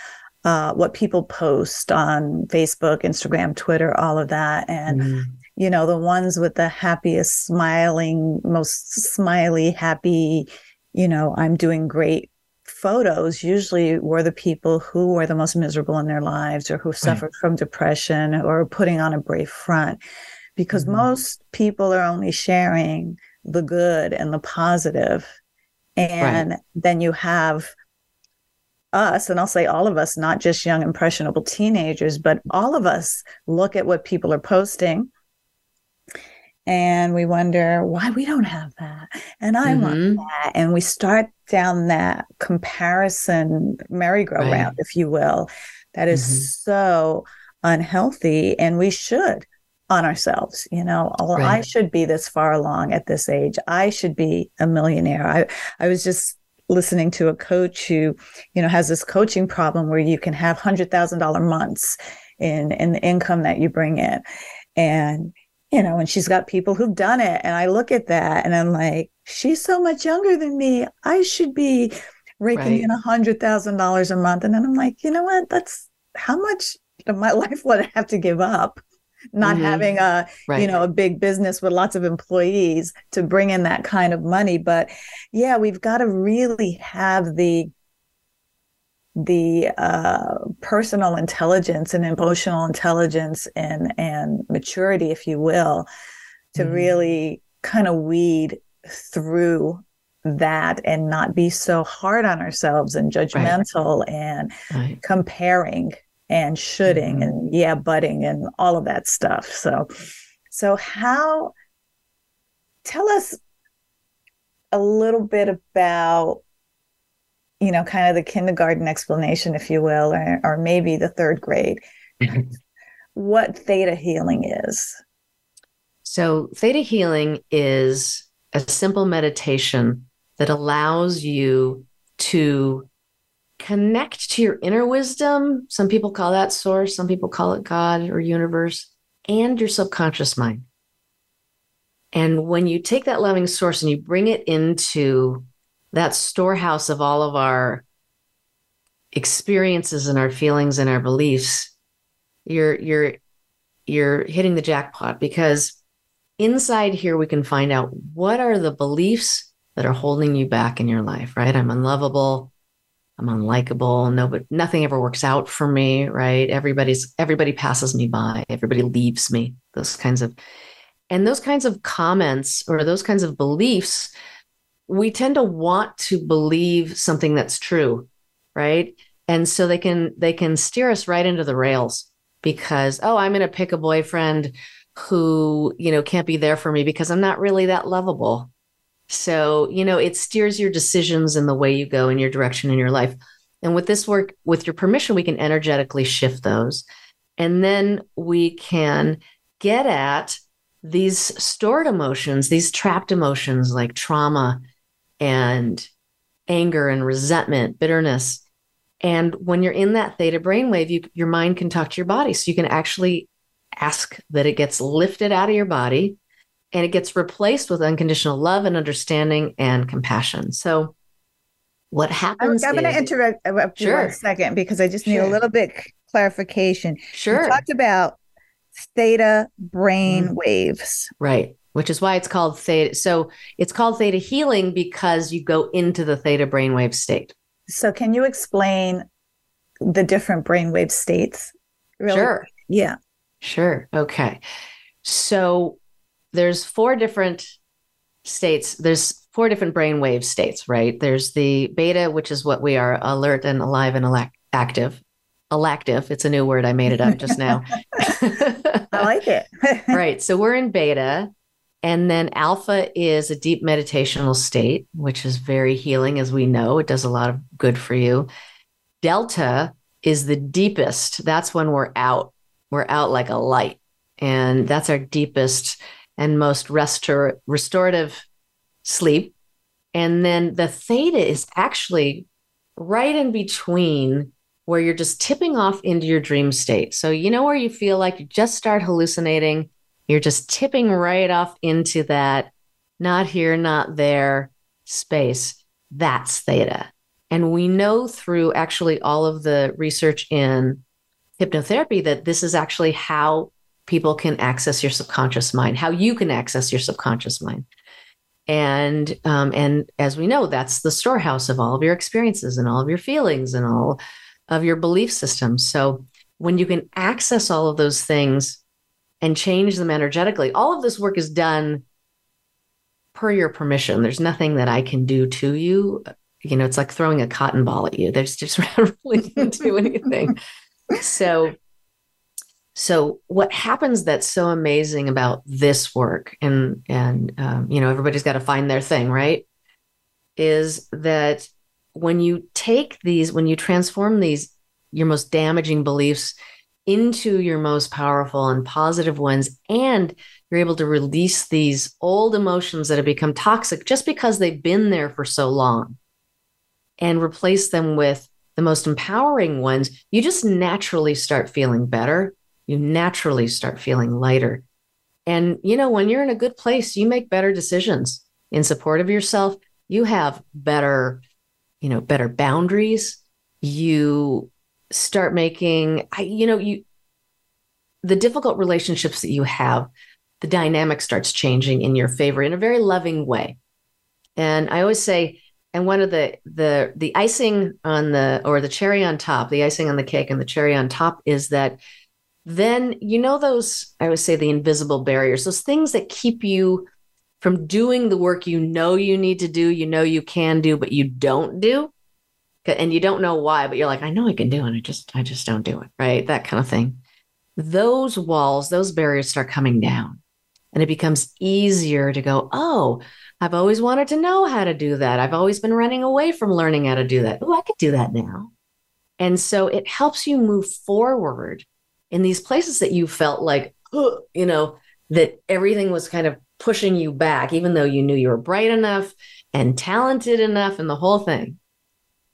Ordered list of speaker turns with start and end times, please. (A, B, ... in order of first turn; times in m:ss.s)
0:00.4-0:05.0 A
0:04.9-0:05.3 B
0:05.6-0:20.0 A
0:20.6-0:25.3 A
0:20.7-0:21.0 B
0:26.0-0:27.7 A
0:26.2-0:26.4 B
0:28.9-0:35.1 A
0:36.6-1:04.2 A
0:39.6-0:40.2 B
0:44.4-0:44.7 B
0:46.1-0:46.5 B
0:51.4-0:51.6 B
1:04.8-1:18.8 A
1:12.5-1:12.9 B
1:19.3-1:27.7 A
1:19.4-1:19.9 B
1:29.2-1:35.9 A
1:36.5-1:44.5 A
1:36.6-1:36.9 B
1:44.7-1:45.0 B
1:45.0-1:49.9 A
1:46.8-1:47.3 B
1:50.5-1:51.5 A
1:52.8-1:53.4 A
1:54.7-1:56.4 A
1:57.6-2:02.4 A
2:03.1-2:05.0 A
2:06.0-2:12.9 B
2:13.6-2:20.6 B
2:22.1-2:27.8 B
2:29.1-2:31.7 B
2:32.4-2:33.2 B
2:33.9-2:35.8 B
2:36.4-2:42.5 B
2:43.2-2:50.4 B
2:51.1-2:54.1 B
2:54.9-3:08.5 B
3:09.1-3:16.8 B
3:17.4-3:24.6 B
3:25.2-3:25.9 B
3:26.5-3:28.4 B
3:29.0-3:36.2 B
3:36.7-3:40.9 B
3:41.9-3:43.0 B
3:42.4-3:48.2 A
3:43.8-3:44.2 B
3:45.0-3:45.4 B
3:47.1-3:47.6 B
3:48.8-3:51.1 A
3:50.1-3:50.3 B
3:51.2-3:57.3 B
3:57.7-3:59.0 A
3:59.8-4:03.0 A
4:02.1-4:02.5 B
4:03.4-4:04.4 B
4:05.0-4:05.8 B
4:06.3-4:07.5 B
4:08.2-4:19.1 B
4:18.9-4:20.0 A
4:19.9-4:21.3 B
4:21.8-4:28.3 B
4:29.0-4:38.2 B
4:38.8-4:39.3 B
4:39.9-4:42.2 B
4:42.8-5:00.8 B
5:01.4-5:07.6 B
5:08.5-5:18.6 B
5:19.2-5:21.8 B
5:23.1-5:30.4 B
5:30.9-5:31.6 B
5:32.7-5:39.4 B
5:40.4-5:46.4 B
5:46.9-5:56.0 B
5:57.0-6:04.6 B
6:05.3-6:11.2 B
6:11.8-6:16.8 B
6:18.0-6:19.9 B
6:20.4-6:23.6 B
6:24.4-6:31.8 B
6:32.4-6:36.9 B
6:37.4-6:41.9 B
6:42.6-6:47.0 B
6:47.6-6:50.2 B
6:50.7-6:58.5 B
6:59.2-7:11.6 B